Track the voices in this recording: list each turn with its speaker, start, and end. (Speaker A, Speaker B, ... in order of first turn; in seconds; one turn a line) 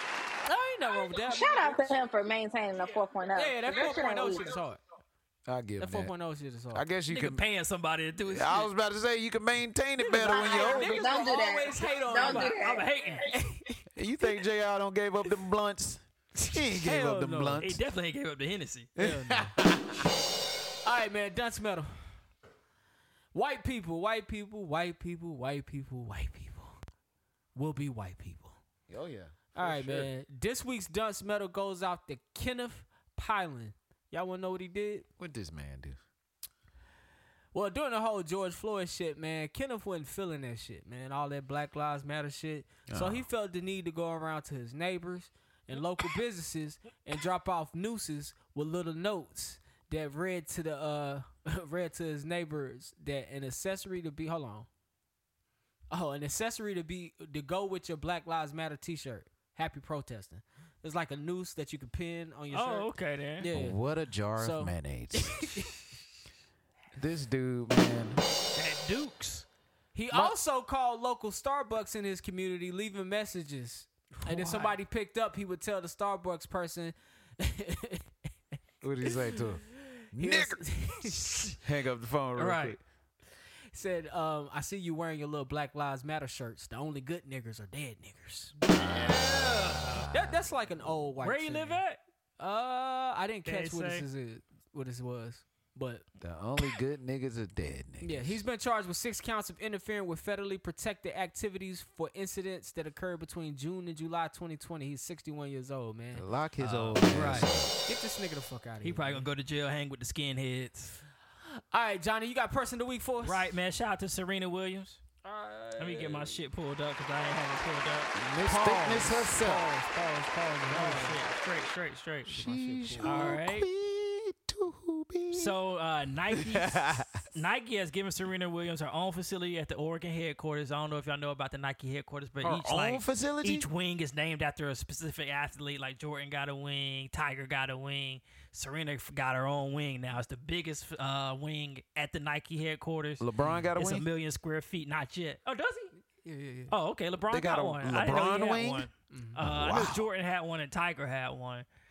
Speaker A: 0.4-1.9
Speaker B: 1.2-4.5
Speaker A: 3.4-4.8
Speaker C: 5.5-6.1
Speaker A: 5.8-6.8
Speaker C: 6.7-7.4
Speaker D: 7.1-8.7
Speaker C: 8.2-11.1
Speaker A: 10.0-12.6
Speaker B: 10.2-13.1
Speaker D: 12.2-13.3
Speaker A: 13.2-13.8
Speaker C: 13.9-17.8
Speaker A: 16.4-17.6
Speaker D: 17.6-19.0
Speaker A: 19.0-19.6
Speaker C: 19.0-19.9
Speaker A: 20.8-22.0
Speaker A: 23.3-26.8
Speaker A: 27.5-28.6
Speaker C: 28.9-30.1
Speaker A: 29.5-35.0
Speaker C: 35.2-36.0
Speaker A: 37.5-54.7
Speaker C: 42.9-43.2
Speaker A: 55.9-63.8
Speaker D: 62.5-63.5
Speaker C: 63.5-65.6
Speaker A: 64.3-65.8
Speaker C: 67.0-68.2
Speaker D: 68.5-69.5
Speaker A: 69.9-78.1
Speaker D: 74.2-74.8
Speaker C: 78.8-80.8
Speaker A: 79.1-81.6
Speaker C: 81.6-82.8
Speaker D: 82.3-82.8
Speaker A: 83.7-88.5
Speaker D: 88.7-90.1
Speaker C: 89.8-90.4
Speaker A: 90.1-91.8
Speaker D: 91.2-92.0
Speaker A: 92.4-96.0
Speaker D: 93.5-94.0
Speaker C: 96.2-98.4
Speaker A: 98.0-106.2
Speaker C: 106.1-107.7
Speaker D: 106.6-107.5
Speaker A: 107.8-109.3
Speaker D: 108.8-111.0
Speaker A: 111.7-113.5
Speaker D: 113.2-115.0
Speaker A: 115.2-116.4
Speaker D: 115.8-118.1
Speaker C: 118.2-119.7
Speaker A: 118.3-121.2
Speaker D: 120.7-122.3
Speaker C: 122.2-125.5
Speaker A: 122.3-123.3
Speaker D: 123.0-123.7
Speaker D: 125.3-145.9
Speaker C: 126.3-127.2
Speaker C: 132.4-133.7
Speaker C: 143.2-144.1
Speaker A: 146.2-146.7
Speaker D: 146.7-151.7
Speaker C: 147.3-148.9
Speaker A: 149.1-149.4
Speaker C: 149.4-150.0